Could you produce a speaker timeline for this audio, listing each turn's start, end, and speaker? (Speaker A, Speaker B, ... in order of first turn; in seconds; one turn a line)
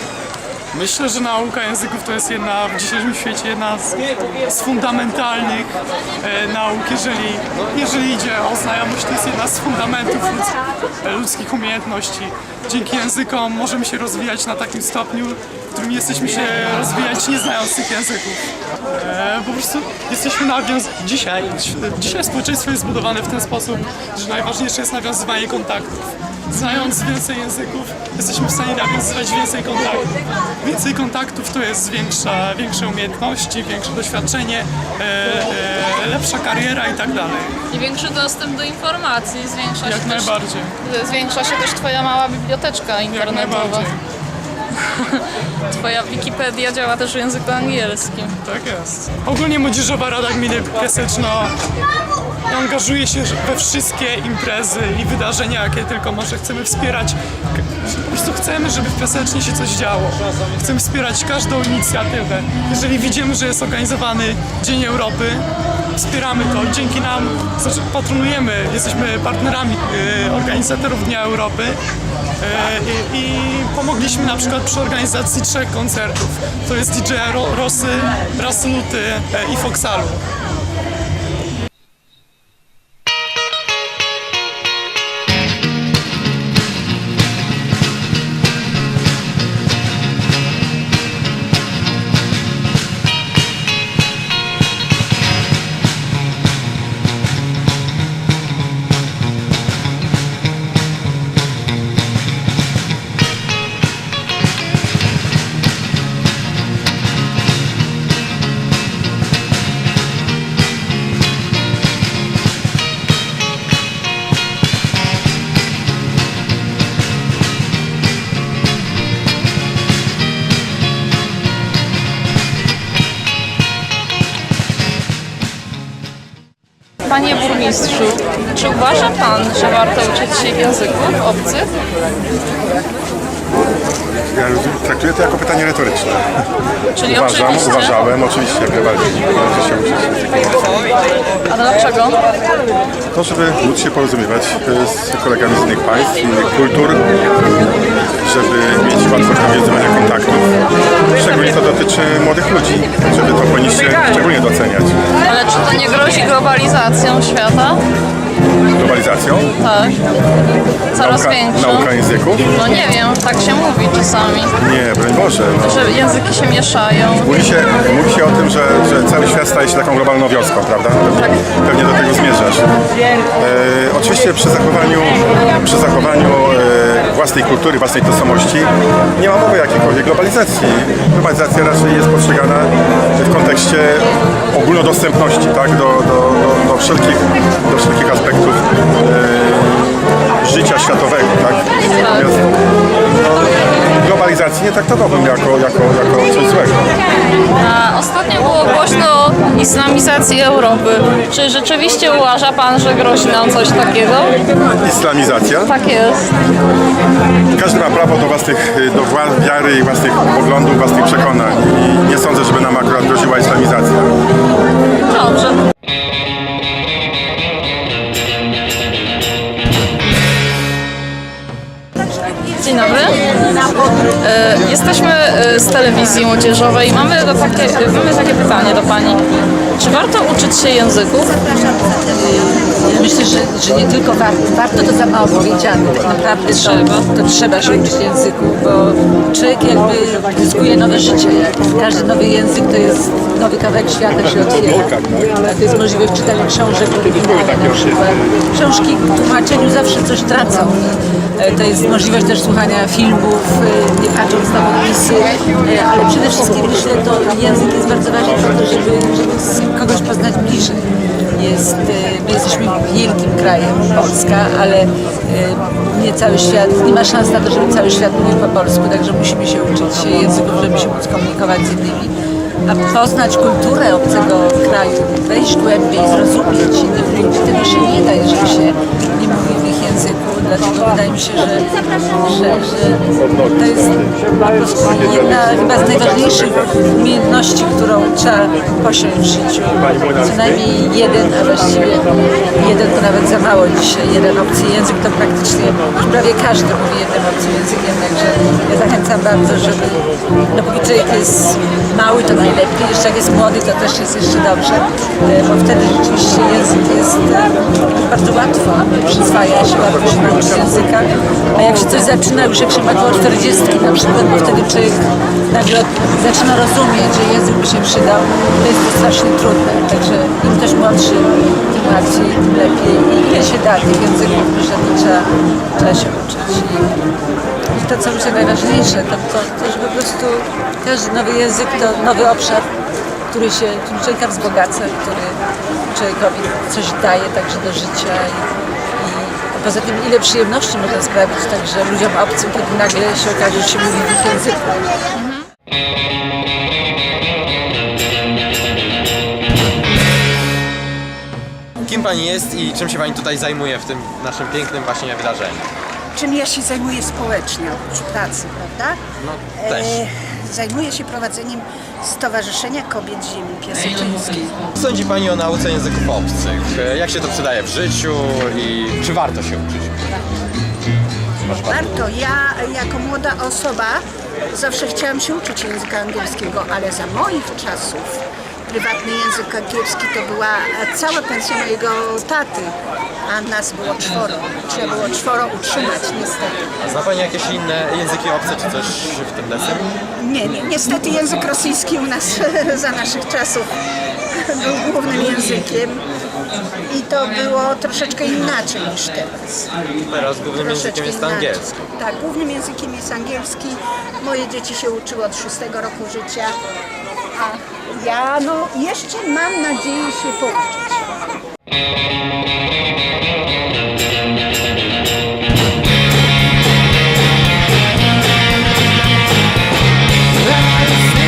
Speaker A: 0.7-5.7
Speaker A: 6.2-18.4
Speaker A: 19.0-25.9
Speaker A: 26.5-30.1
Speaker A: 30.6-37.5
Speaker B: 37.7-43.9
Speaker A: 39.8-40.7
Speaker A: 43.1-44.0
Speaker B: 44.9-48.4
Speaker A: 48.4-51.5
Speaker A: 52.5-65.4
Speaker A: 66.0-71.8
Speaker A: 72.4-80.2
Speaker B: 127.0-131.7
Speaker C: 134.3-136.3
Speaker B: 136.9-138.1
Speaker C: 137.0-140.7
Speaker B: 141.5-142.2
Speaker C: 143.1-147.1
Speaker C: 148.2-150.5
Speaker C: 151.1-155.0
Speaker B: 155.2-157.8
Speaker C: 158.7-159.5
Speaker B: 159.6-160.0
Speaker B: 160.9-164.5
Speaker C: 160.9-162.5
Speaker C: 164.6-165.9
Speaker B: 165.6-167.4
Speaker C: 167.2-172.7
Speaker C: 173.4-192.4
Speaker B: 191.9-192.3
Speaker C: 193.2-196.9
Speaker B: 197.6-204.4
Speaker C: 204.8-205.7
Speaker B: 205.7-206.3
Speaker C: 207.5-214.1
Speaker B: 215.1-215.6
Speaker B: 222.5-223.2
Speaker B: 224.2-229.2
Speaker B: 229.8-231.4
Speaker D: 232.0-272.1
Speaker B: 236.5-237.1
Speaker C: 244.7-245.1
Speaker D: 272.6-315.0
Speaker C: 289.9-290.4
Speaker D: 315.5-326.9
Speaker D: 327.7-332.7
Speaker D: 333.3-344.8
Speaker B: 345.1-345.4
Speaker E: 351.8-355.7
Speaker F: 356.1-359.0
Speaker E: 359.2-360.0
Speaker F: 359.6-364.4
Speaker E: 364.8-370.0
Speaker F: 371.6-374.0
Speaker F: 374.5-378.1
Speaker F: 378.7-382.7
Speaker F: 383.3-386.6
Speaker E: 386.8-389.9
Speaker F: 390.2-393.7
Speaker F: 394.3-396.0
Speaker F: 396.9-399.7
Speaker E: 400.0-401.8
Speaker F: 400.5-406.5
Speaker F: 407.3-411.0